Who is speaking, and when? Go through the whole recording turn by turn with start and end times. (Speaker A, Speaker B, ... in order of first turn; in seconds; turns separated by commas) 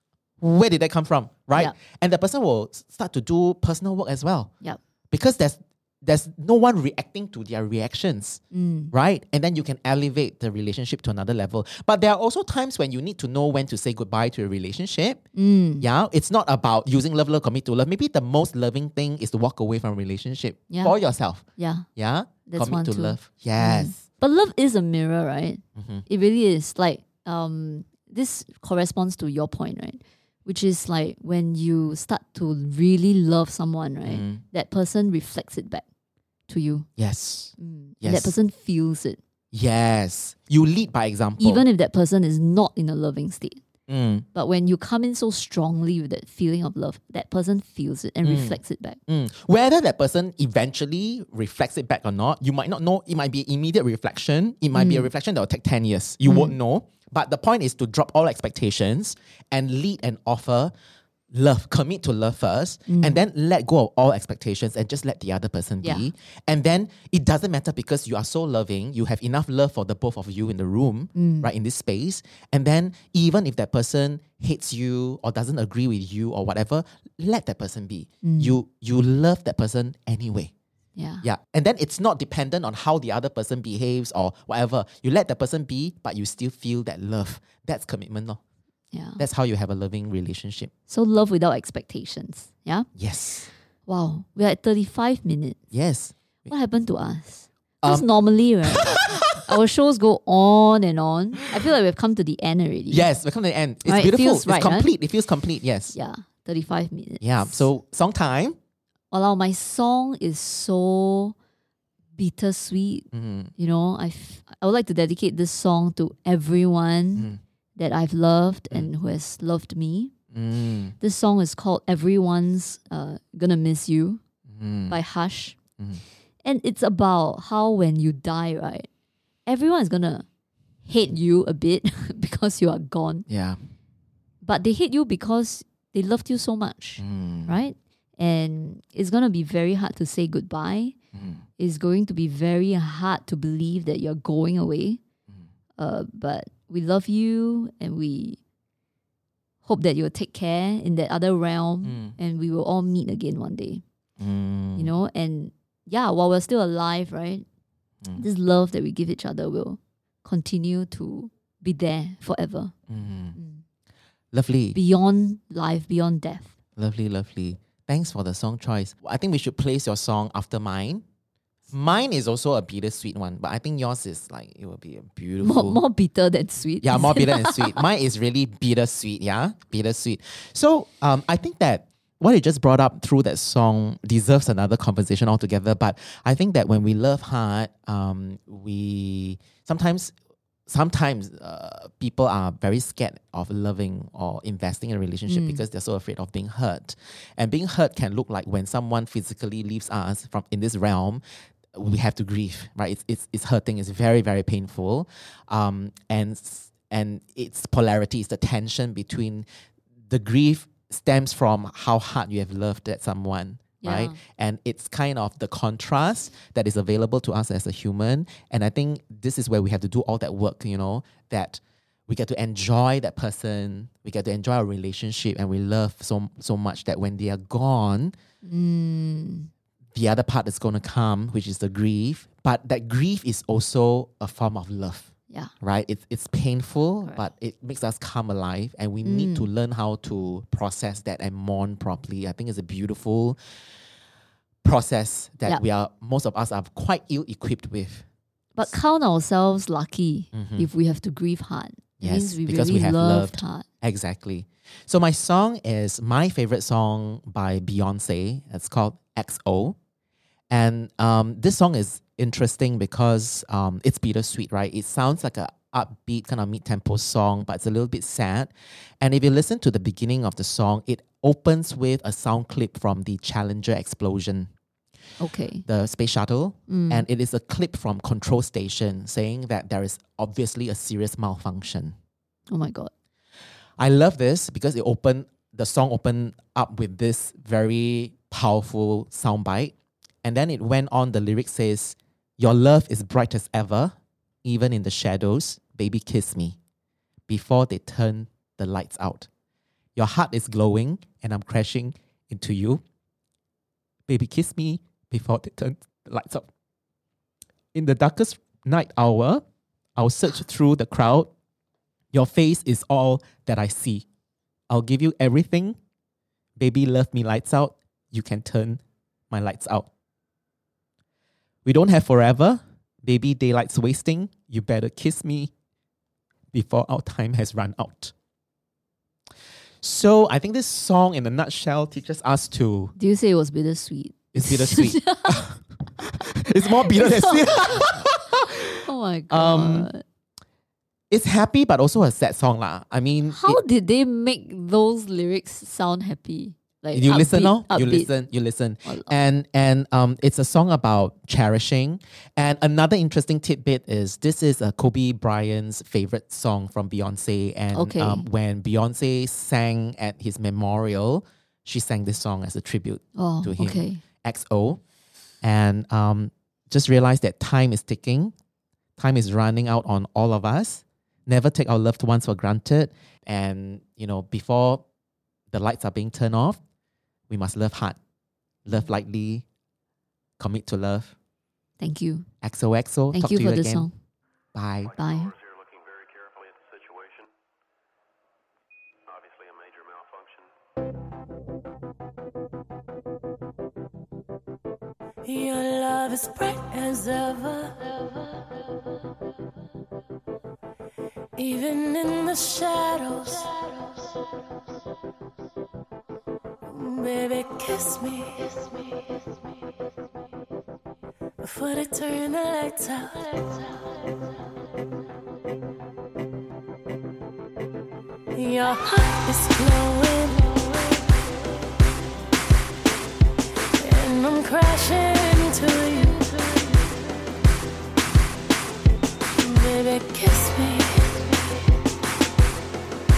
Speaker A: 0.4-4.5, Speaker A: 5.1-8.4, Speaker B: 8.5-8.9, Speaker A: 8.9-15.2, Speaker B: 15.3-15.8, Speaker A: 15.8-21.4, Speaker B: 20.7-20.9, Speaker B: 21.6-21.9, Speaker A: 21.9-24.0, Speaker B: 22.5-35.8, Speaker A: 25.8-26.0, Speaker A: 34.0-34.4, Speaker B: 36.5-36.9, Speaker A: 37.0-38.3, Speaker B: 37.6-39.2, Speaker A: 39.5-41.6, Speaker B: 41.4-43.6, Speaker A: 43.9-44.2, Speaker B: 44.3-49.0, Speaker A: 48.2-60.7, Speaker B: 54.7-55.1, Speaker B: 56.2-56.5, Speaker A: 61.3-80.5, Speaker B: 62.9-63.2, Speaker B: 65.8-66.1, Speaker B: 71.2-71.5, Speaker B: 78.2-78.6, Speaker B: 81.0-81.2, Speaker A: 81.2-88.4, Speaker B: 88.9-89.2, Speaker A: 89.2-90.7, Speaker B: 90.9-92.9, Speaker A: 93.0-93.5, Speaker B: 93.9-95.6, Speaker A: 95.7-96.5, Speaker B: 96.5-103.1, Speaker A: 97.8-98.1, Speaker A: 98.7-99.5, Speaker A: 102.9-105.9, Speaker B: 103.8-104.9, Speaker B: 105.9-107.7, Speaker A: 107.2-108.6, Speaker B: 109.1-111.3, Speaker B: 112.2-113.0, Speaker A: 113.1-113.5, Speaker B: 113.6-120.1, Speaker A: 120.3-120.9, Speaker B: 121.0-124.2, Speaker A: 124.5-125.0, Speaker B: 124.9-125.6, Speaker B: 126.4-128.9, Speaker B: 129.4-130.2, Speaker B: 130.8-133.2, Speaker A: 133.3-133.6, Speaker B: 134.4-140.9, Speaker A: 137.0-137.6, Speaker A: 141.1-141.4, Speaker B: 141.6-145.0, Speaker B: 145.8-148.4, Speaker B: 149.6-153.8, Speaker A: 151.8-152.1, Speaker A: 154.2-154.9, Speaker B: 154.8-157.4, Speaker B: 158.2-162.7, Speaker A: 162.9-163.4, Speaker B: 163.4-163.6, Speaker A: 164.3-164.8, Speaker B: 164.7-166.5, Speaker A: 166.8-171.0, Speaker A: 171.7-175.8, Speaker B: 175.4-177.8, Speaker A: 176.8-190.1, Speaker A: 190.7-201.2, Speaker B: 195.3-195.6, Speaker A: 201.7-209.4, Speaker A: 210.1-228.2, Speaker B: 213.8-214.2, Speaker B: 228.4-229.5, Speaker A: 229.9-235.1, Speaker A: 235.6-243.4, Speaker B: 239.0-239.5, Speaker A: 244.6-248.0, Speaker B: 248.6-253.6, Speaker A: 250.3-250.7, Speaker A: 252.0-259.8, Speaker A: 260.5-274.5, Speaker B: 275.2-275.6, Speaker A: 275.7-281.9, Speaker B: 276.7-277.0, Speaker B: 282.5-282.9, Speaker A: 283.8-296.6, Speaker A: 297.3-299.3, Speaker A: 299.9-302.8, Speaker A: 304.1-306.5, Speaker A: 307.7-309.4, Speaker A: 310.0-311.3, Speaker A: 312.1-314.0, Speaker A: 314.7-315.8, Speaker A: 316.6-319.9, Speaker A: 321.6-325.5, Speaker A: 326.5-328.1, Speaker A: 329.8-332.9, Speaker B: 333.0-335.4, Speaker A: 334.3-339.9, Speaker B: 336.8-338.1, Speaker B: 338.7-340.0, Speaker A: 341.1-343.6, Speaker B: 343.3-348.1, Speaker A: 346.9-364.8, Speaker B: 357.7-358.2, Speaker B: 363.1-364.0, Speaker A: 365.4-368.3, Speaker A: 369.0-374.8, Speaker A: 375.5-376.6, Speaker A: 377.3-378.0, Speaker A: 378.6-379.4, Speaker A: 380.4-381.1, Speaker B: 381.8-382.3, Speaker A: 382.4-383.9, Speaker B: 383.1-383.9, Speaker A: 384.5-384.9, Speaker C: 385.0-387.3, Speaker B: 385.0-385.3, Speaker C: 389.1-390.5, Speaker D: 395.2-398.5, Speaker D: 401.4-404.1, Speaker D: 406.6-409.0, Speaker D: 411.4-413.9, Speaker D: 418.3-421.4, Speaker D: 423.8-427.2, Speaker D: 429.4-431.8